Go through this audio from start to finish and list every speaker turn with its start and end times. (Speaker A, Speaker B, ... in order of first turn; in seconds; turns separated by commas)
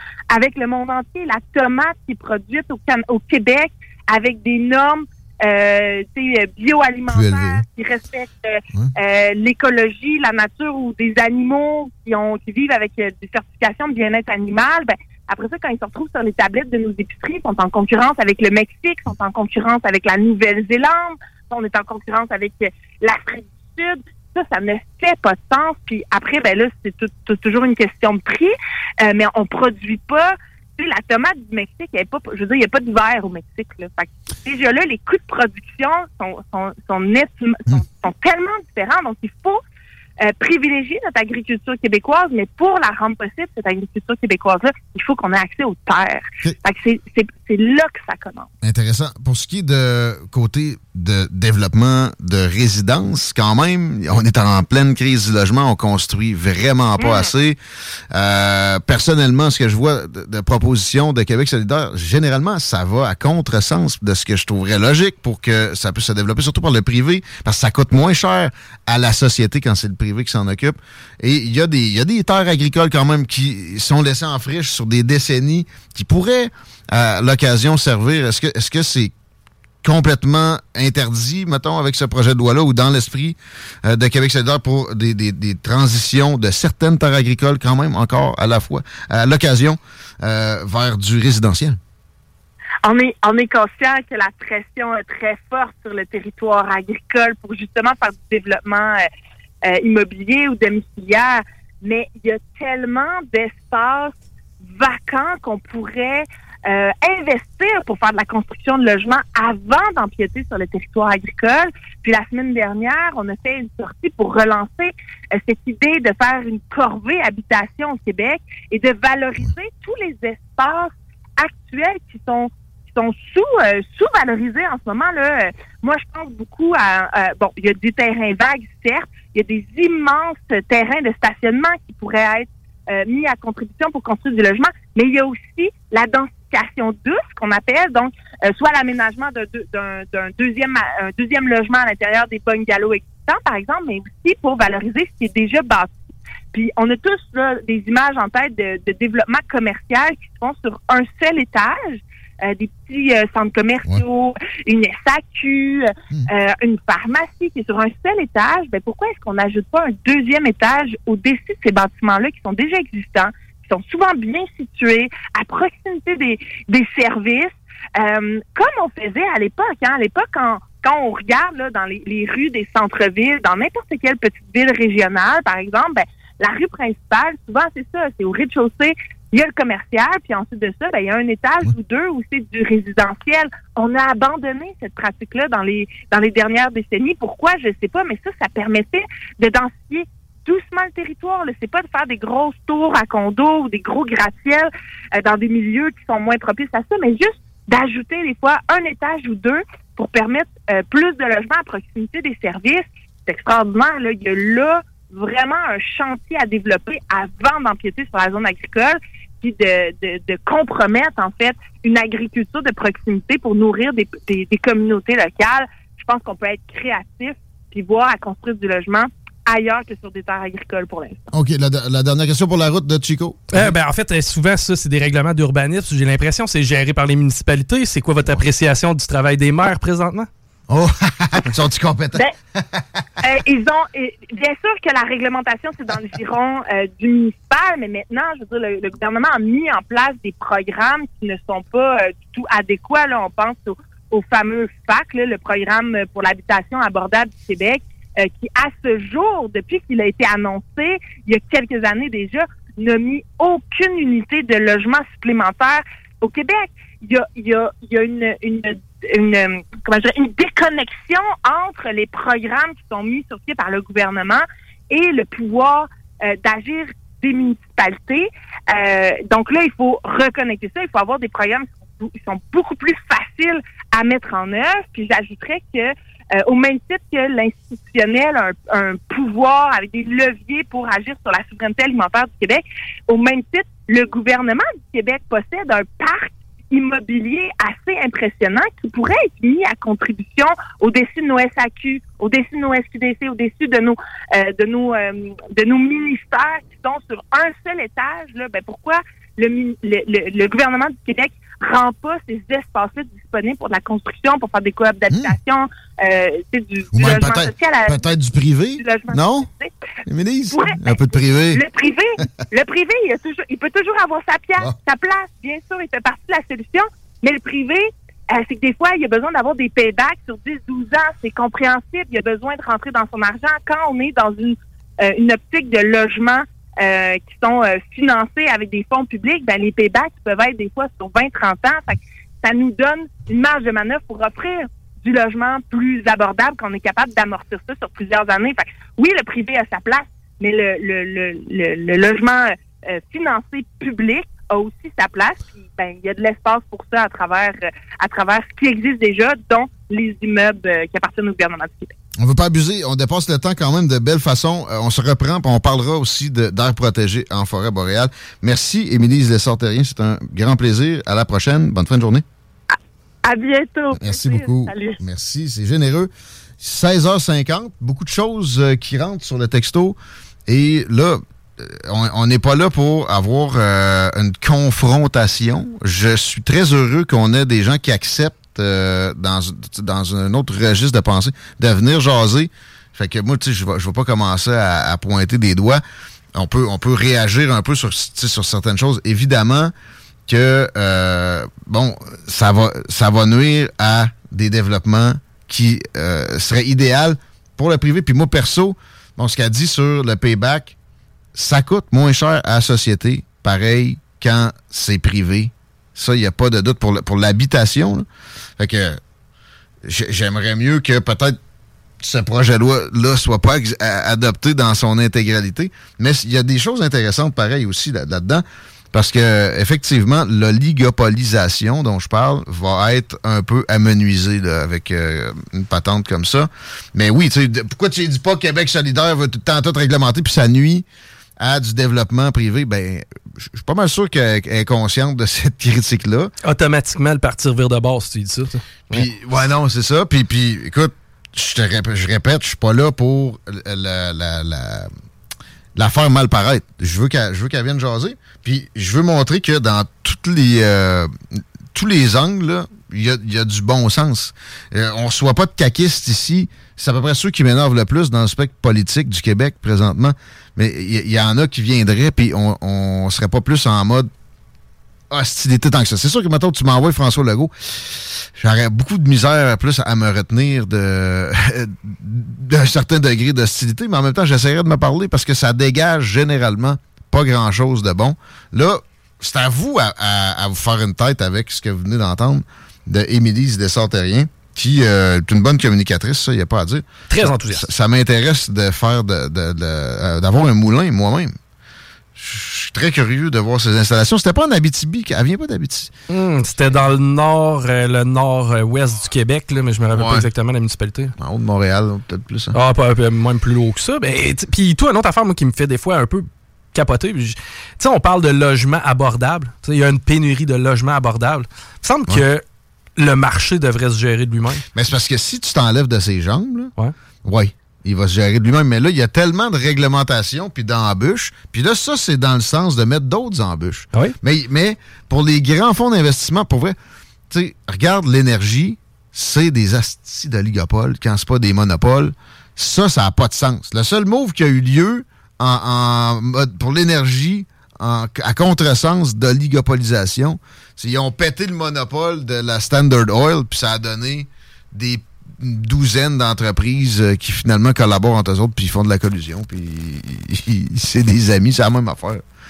Speaker A: 0.3-39.6, Speaker B: 7.1-7.6, Speaker A: 40.2-48.5, Speaker B: 48.6-57.6, Speaker A: 57.0-57.3, Speaker B: 58.1-79.1, Speaker B: 79.8-91.8, Speaker A: 92.8-99.0, Speaker A: 99.6-145.9, Speaker A: 146.5-221.2, Speaker B: 221.3-223.7, Speaker C: 223.5-230.3, Speaker B: 230.7-232.8, Speaker A: 233.2-308.1, Speaker B: 307.0-309.5, Speaker A: 308.8-309.7, Speaker B: 310.1-311.6, Speaker A: 310.5-351.9, Speaker B: 352.2-362.2, Speaker A: 363.2-365.0, Speaker B: 364.0-385.8, Speaker B: 386.3-389.7, Speaker B: 390.3-400.7, Speaker B: 401.3-408.1, Speaker B: 408.6-409.0, Speaker B: 409.8-411.4, Speaker B: 412.0-430.8, Speaker B: 431.4-436.3, Speaker C: 436.4-439.1, Speaker B: 438.9-444.9, Speaker B: 445.8-451.1, Speaker B: 451.7-464.1, Speaker B: 465.1-491.3, Speaker C: 487.1-487.7, Speaker B: 492.1-495.9, Speaker C: 496.1-501.1, Speaker B: 499.9-500.3, Speaker B: 501.2-502.5, Speaker C: 502.5-512.4, Speaker C: 513.0-514.6, Speaker B: 514.7-516.7, Speaker B: 517.2-526.8, Speaker B: 527.3-552.2